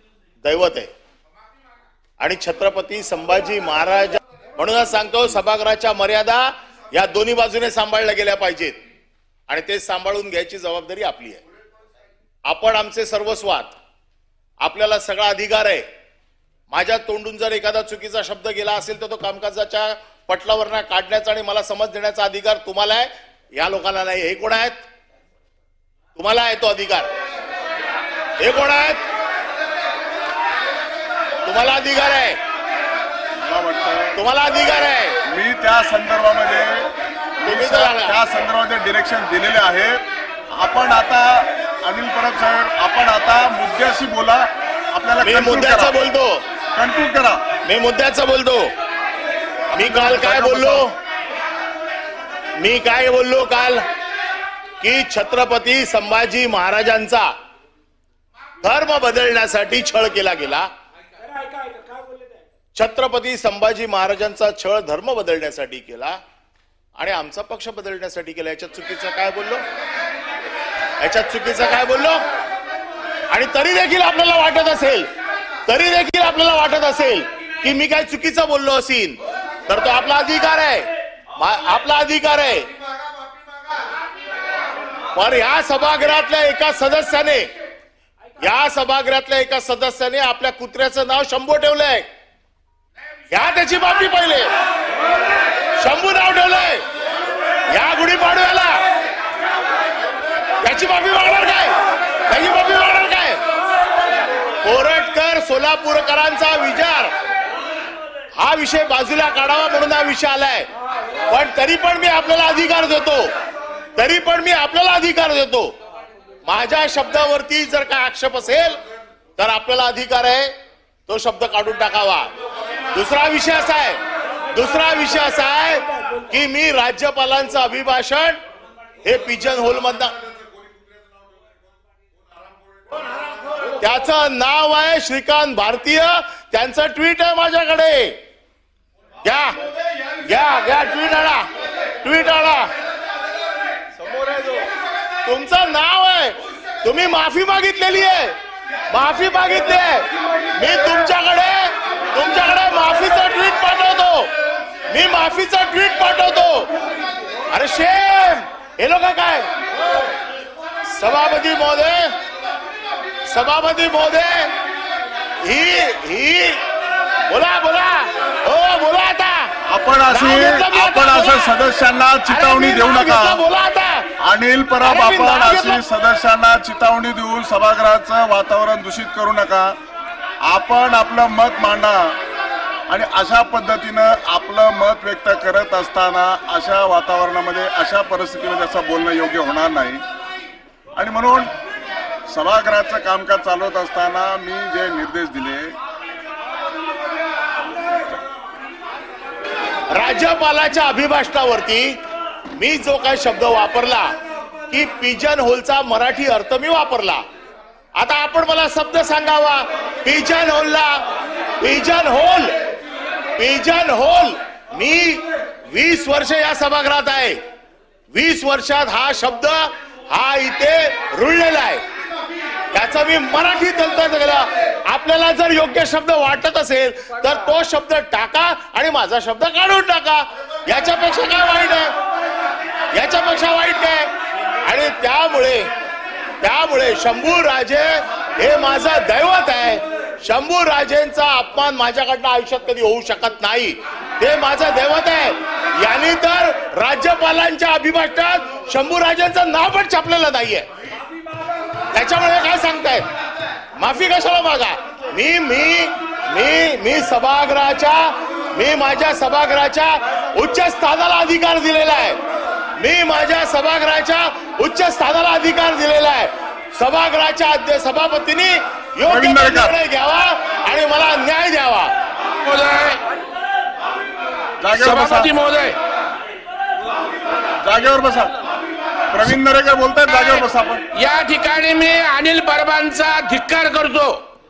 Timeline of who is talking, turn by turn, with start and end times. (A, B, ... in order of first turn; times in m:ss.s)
0:00.4-0:00.9 A
0:02.2-0:08.8 A
0:09.5-0:11.4 A
0:12.5-0:13.7 A
0:14.6-0:15.8 A
0:16.7-0:24.8 A
0:26.2-0:27.1 A
0:28.4-0:29.0 A
0:31.4-0:32.4 A
0:33.4-0:34.2 B
0:34.2-0:35.2 A
0:35.3-0:36.9 B
0:37.4-0:38.2 A
0:37.4-0:40.0 B
0:40.5-0:46.0 B
0:45.2-0:46.4 A
0:46.8-0:47.4 B
0:47.6-0:48.7 A
0:49.7-0:50.9 A
0:49.8-0:50.8 B
0:52.6-0:53.8 A
0:54.8-0:57.3 A
0:58.6-1:00.7 A
1:02.8-1:06.2 A
1:07.0-1:09.6 A
1:11.0-1:12.2 A
1:13.3-1:15.1 A
1:15.7-1:22.7 A
1:25.1-1:27.5 A
1:28.4-1:32.1 A
1:33.3-1:34.5 A
1:35.8-1:36.8 A
1:37.7-1:38.8 A
1:40.6-1:41.8 A
1:42.3-1:43.4 A
1:44.6-1:47.1 A
1:48.4-1:50.7 A
1:51.3-1:53.3 A
1:54.0-1:55.7 A
1:56.4-1:58.8 A
1:59.4-2:00.5 A
2:01.1-2:02.3 A
2:02.9-2:04.0 A
2:04.5-2:08.4 A
2:09.0-2:10.2 A
2:13.8-2:18.2 A
2:19.2-2:19.6 A
2:20.2-2:22.7 A
2:24.2-2:24.6 A
2:25.2-2:28.4 A
2:28.9-2:34.3 A
2:34.9-2:36.7 A
2:37.5-2:39.5 A
2:40.9-2:42.1 A
2:43.3-2:44.5 A
2:45.4-2:46.6 A
2:47.3-2:49.5 A
2:49.7-2:53.4 B
2:50.1-2:51.5 A
2:52.3-2:54.1 A
2:54.2-2:59.8 B
2:54.8-2:55.8 A
3:00.4-3:02.2 B
3:02.9-3:10.0 B
3:11.0-3:11.5 B
3:12.3-3:15.8 B
3:19.9-3:22.0 A
3:22.6-3:24.1 A
3:24.7-3:27.2 A
3:28.0-3:31.0 A
3:31.6-3:32.6 A
3:33.4-3:37.4 A
3:38.1-3:41.8 A
3:42.7-3:51.9 A
3:52.9-3:54.1 A
3:54.6-3:55.7 A
3:56.4-4:10.7 A
4:11.9-4:13.1 A
4:13.8-4:22.2 A
4:22.8-4:31.9 A
4:29.1-4:29.8 B
4:32.4-4:33.0 C
4:34.6-4:35.3 B
4:34.7-4:35.8 C
4:37.6-4:38.3 B
4:39.1-4:40.8 B
4:41.0-4:44.2 C